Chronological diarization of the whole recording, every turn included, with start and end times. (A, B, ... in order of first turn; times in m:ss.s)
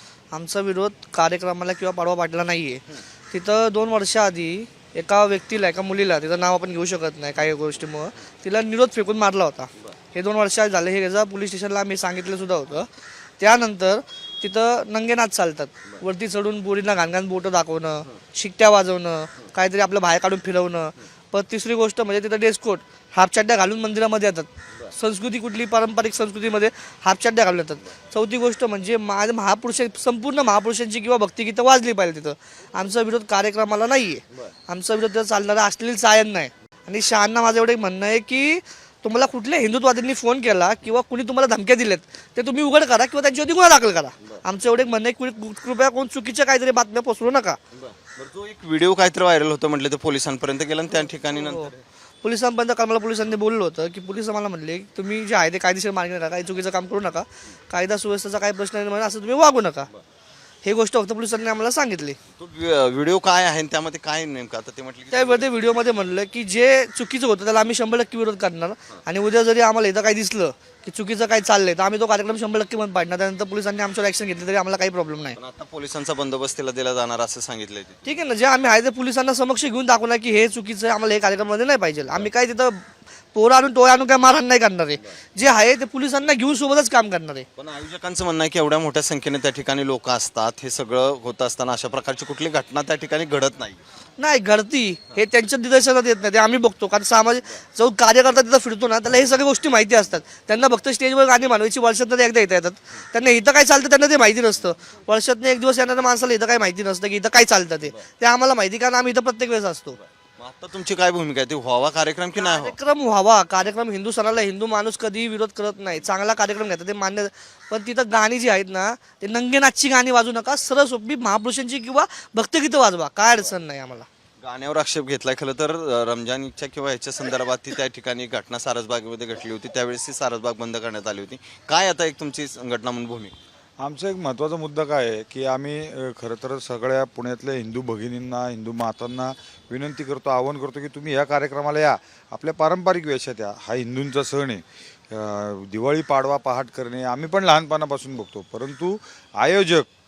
0:00.3-0:12.9 A
0:13.4-0:47.6 A
0:47.7-0:51.8 B
0:51.3-0:51.7 A
0:52.2-0:59.9 A
1:00.6-1:02.2 A
1:02.4-1:05.5 B
1:05.1-1:15.4 A
1:15.3-1:18.2 B
1:18.0-1:22.8 A
1:23.3-1:27.4 A
1:27.6-1:33.8 B
1:34.2-1:50.0 A
1:50.4-1:52.8 B
1:52.4-2:04.0 A
2:04.4-2:13.3 B
2:13.8-2:29.9 C